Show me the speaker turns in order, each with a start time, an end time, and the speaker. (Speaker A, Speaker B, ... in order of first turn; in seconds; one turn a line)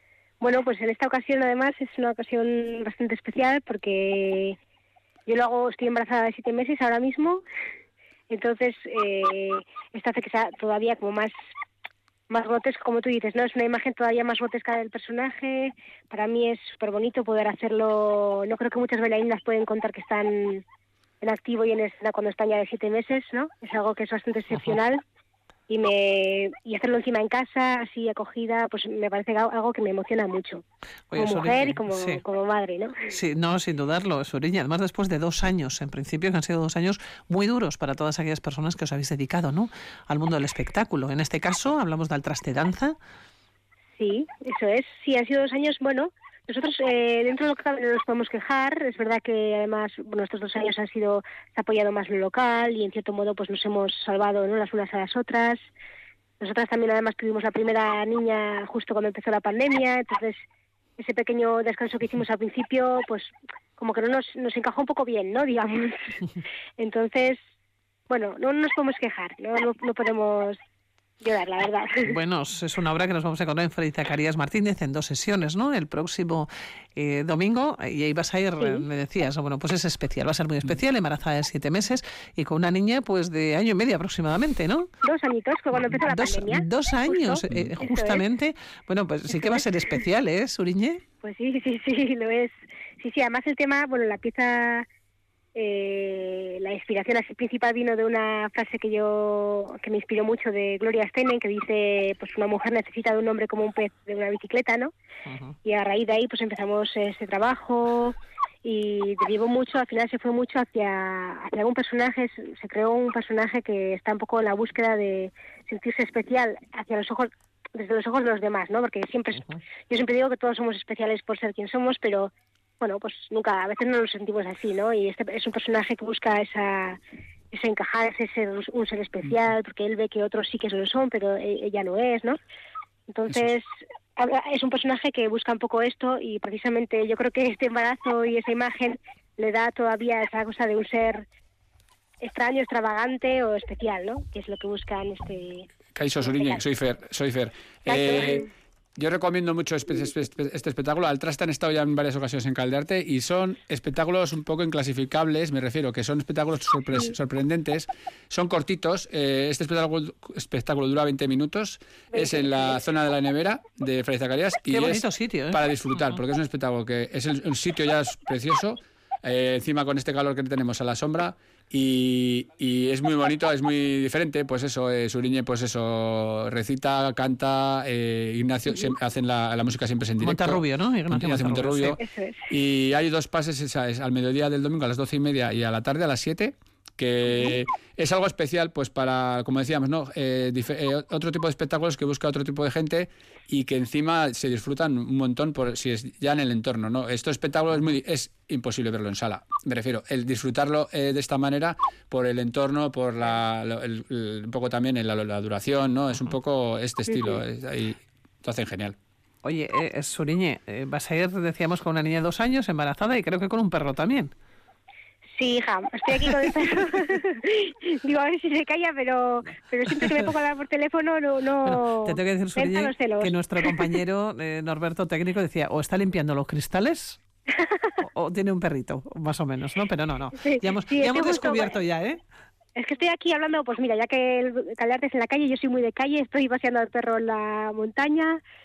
Speaker A: 0.4-4.6
Speaker A: 5.3-7.4
Speaker A: 8.3-11.3
Speaker A: 12.3-20.6
Speaker A: 21.2-25.0
Speaker A: 25.7-30.6
Speaker B: 31.1-32.2
Speaker A: 31.1-33.1
Speaker B: 33.1-43.0
Speaker A: 44.0-55.6
Speaker A: 56.4-60.4
Speaker A: 61.0-66.2
Speaker A: 66.8-67.4
Speaker A: 68.1-70.6
Speaker A: 71.2-72.2
Speaker B: 72.0-84.9
Speaker A: 85.0-88.2
Speaker B: 85.7-91.0
Speaker A: 91.2-94.8
Speaker A: 95.5-104.9
Speaker B: 105.2-105.5
Speaker A: 105.6-127.0
Speaker A: 127.5-132.4
Speaker A: 133.1-141.2
Speaker A: 142.2-145.7
Speaker C: 145.9-148.4
Speaker A: 146.2-146.6
Speaker A: 147.9-148.5
Speaker C: 149.0-208.9
Speaker A: 162.1-162.7
Speaker B: 164.7-165.6
Speaker B: 180.2-182.0
Speaker A: 182.0-182.5
Speaker A: 207.1-207.4
Speaker B: 209.4-214.3
Speaker A: 215.4-223.9
Speaker B: 219.9-220.3
Speaker B: 221.6-227.2
Speaker A: 227.6-227.9
Speaker B: 228.0-232.2
Speaker A: 230.4-231.8
Speaker A: 232.8-238.4